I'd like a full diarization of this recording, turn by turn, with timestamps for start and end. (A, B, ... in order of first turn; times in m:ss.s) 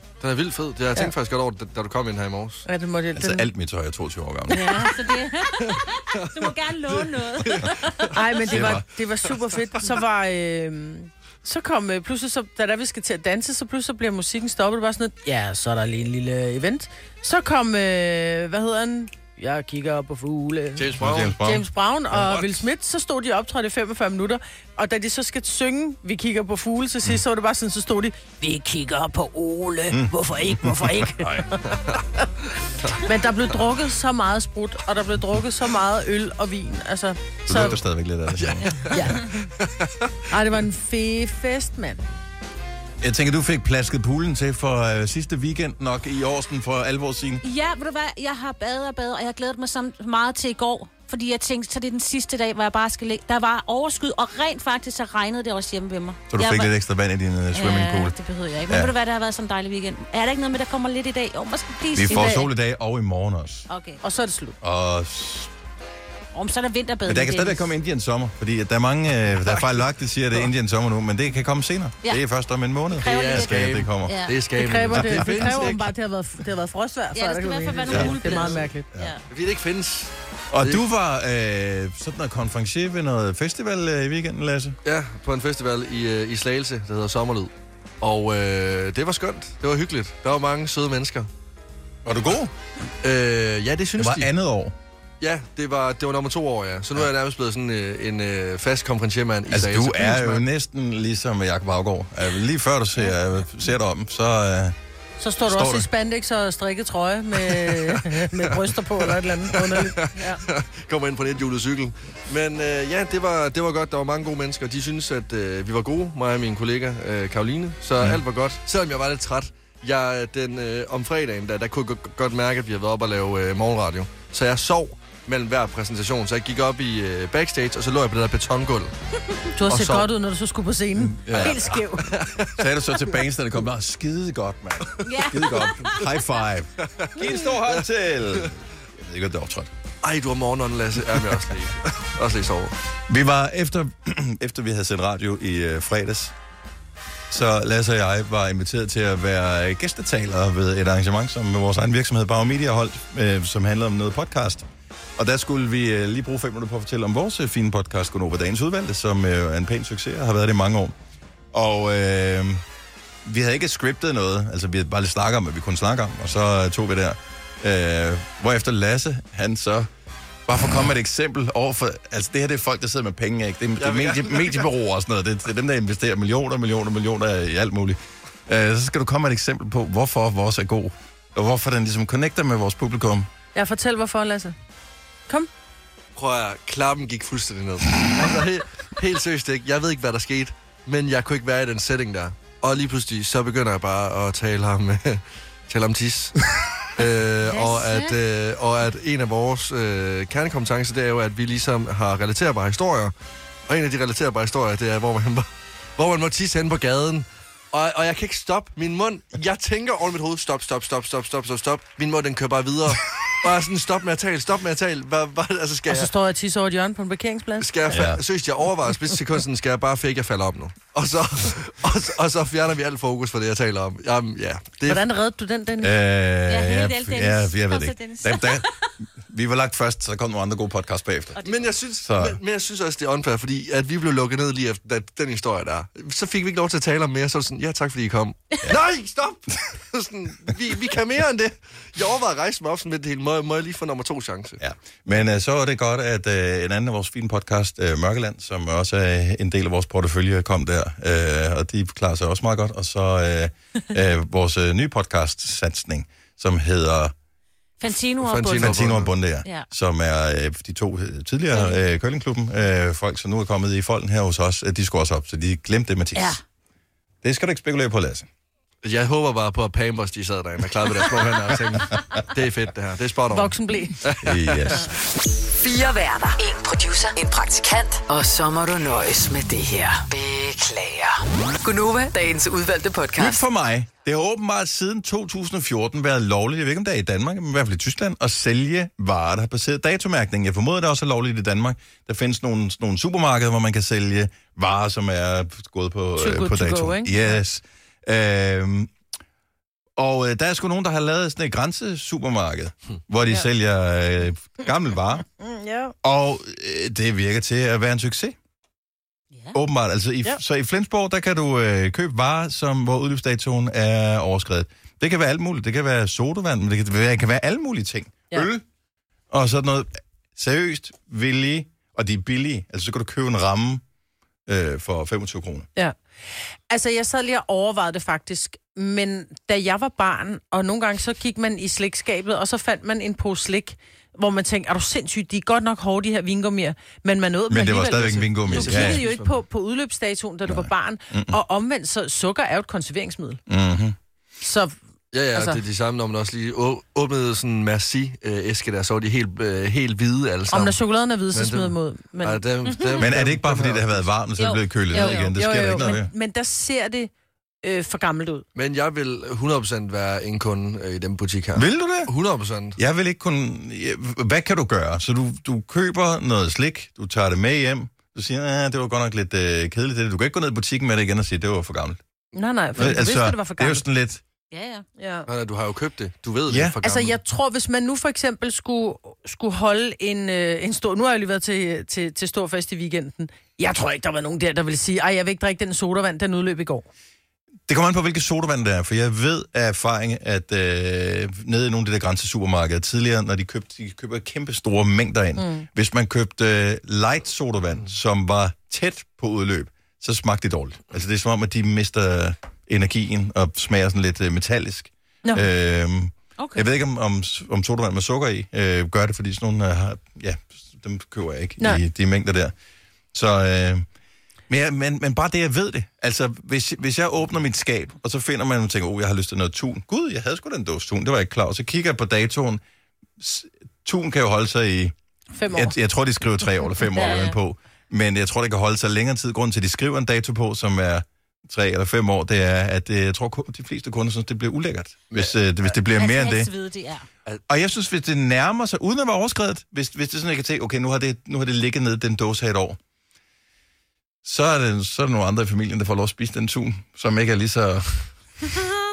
0:00.2-0:02.6 A
0:02.6-0:03.5 B
0:03.2-0:04.8 C
0:04.5-0:08.6 D
0:04.6-0:04.8 B
0:05.6-0:08.1 A
0:08.1-0:20.8 B
0:08.5-0:08.8 C
0:20.8-0:21.4 A
0:21.0-0:21.6 C
0:21.4-0:28.2 B
0:22.1-0:22.6 A
0:28.4-0:31.2 D
0:29.9-0:31.4 C
0:31.6-0:32.0 A
0:33.0-0:37.8 B
0:37.5-0:39.0 C
0:37.5-0:37.8 A
0:38.3-0:40.2 A
0:38.9-0:39.2 B
0:40.3-0:42.0 B
0:43.0-0:47.4 C
0:47.4-0:56.7 D
0:56.3-0:58.2 C
0:57.5-1:02.4 D
1:01.9-1:03.6 C
1:02.1-1:02.4 B
1:03.7-1:04.0 D
1:04.0-1:04.6 B
1:04.6-1:05.5 C
1:06.3-1:07.6 D
1:07.1-1:14.2 C
1:09.4-1:09.6 A
1:12.9-1:14.4 D
1:13.0-1:15.8 A
1:14.6-1:18.8 B
1:14.9-1:15.9 C
1:17.1-1:19.2 D
1:17.9-1:18.1 C
1:19.3-1:20.8 A
1:20.5-1:24.8 C
1:24.8-1:31.3 A
1:32.0-1:32.5 C
1:33.0-1:34.3 A
1:34.0-1:34.7 C
1:35.2-1:40.4 A
1:39.5-1:44.8 C
1:45.2-1:50.4 B
1:45.4-1:45.9 C
1:47.4-2:08.9 A
2:09.6-2:12.1 B
2:09.6-2:10.1 A
2:11.0-2:11.7 C
2:11.3-2:12.7 A
2:12.6-2:19.7 C
2:15.0-2:16.1 D
2:16.8-2:17.8 A
2:20.0-2:22.7 A
2:23.1-2:26.3 C
2:27.3-2:34.6 C
2:35.2-2:40.9 C
2:41.5-2:42.6 C
2:43.2-2:49.9 C
2:50.5-3:03.3 C
2:53.8-2:54.7 A
3:03.5-3:04.6 B
3:06.2-3:16.4 A
3:17.0-3:23.1 A
3:17.4-3:18.2 D
3:23.7-3:36.1 A
3:35.9-3:37.7 B
3:37.6-3:45.0 A
3:37.9-3:38.2 C
3:44.8-3:45.9 B
3:45.8-3:48.7 C
3:46.5-3:48.9 D
3:49.2-3:51.4 C
3:51.4-3:51.7 D
3:51.4-4:04.6 A
3:52.0-3:52.4 C
4:04.6-4:17.1 C
4:17.8-4:19.7 D
4:18.2-4:19.1 A
4:18.5-4:26.4 C
4:21.5-4:21.8 D
4:26.1-4:26.4 D
4:27.2-4:28.3 C
4:28.8-4:34.9 A
4:33.3-4:34.0 B
4:34.2-4:34.9 C
4:35.5-4:43.4 E
4:43.2-4:58.9 C
4:56.2-4:57.4 B
5:00.0-5:05.2 C
5:05.4-5:05.9 B
5:06.0-5:08.4 C
5:09.5-5:18.6 C
5:19.3-5:23.8 C
5:24.5-5:25.7 C
5:26.7-5:43.4 B
5:37.5-5:39.0 C
5:38.0-5:39.4 A
5:40.5-5:41.4 C
5:43.5-5:44.0 C
5:44.4-5:44.8 B
5:45.1-5:50.8 A
5:45.3-5:45.6 B
5:50.5-5:52.4 B
5:51.3-5:54.0 A
5:52.6-5:53.1 D
5:53.0-5:56.1 C
5:54.4-5:55.9 D
5:54.9-5:57.1 B
5:57.6-5:58.4 B
5:58.5-6:02.8 A
6:01.5-6:02.1 C
6:02.8-6:12.0 C
6:12.3-6:13.8 B
6:12.8-6:14.2 C
6:14.5-6:14.8 D
6:15.0-6:15.3 B
6:15.3-6:17.2 A
6:16.5-6:16.8 C
6:16.8-6:26.8 B
6:27.7-6:52.5 C
6:35.4-6:35.6 B
6:46.4-6:46.6 D
6:53.1-6:53.8 C
6:54.5-7:02.6 C
7:03.2-7:04.9 C
7:05.3-7:05.7 B
7:05.5-7:16.5 C
7:06.9-7:07.4 D
7:15.1-7:15.4 A
7:16.0-7:17.0 D
7:17.5-7:22.8 C
7:24.2-7:28.1 C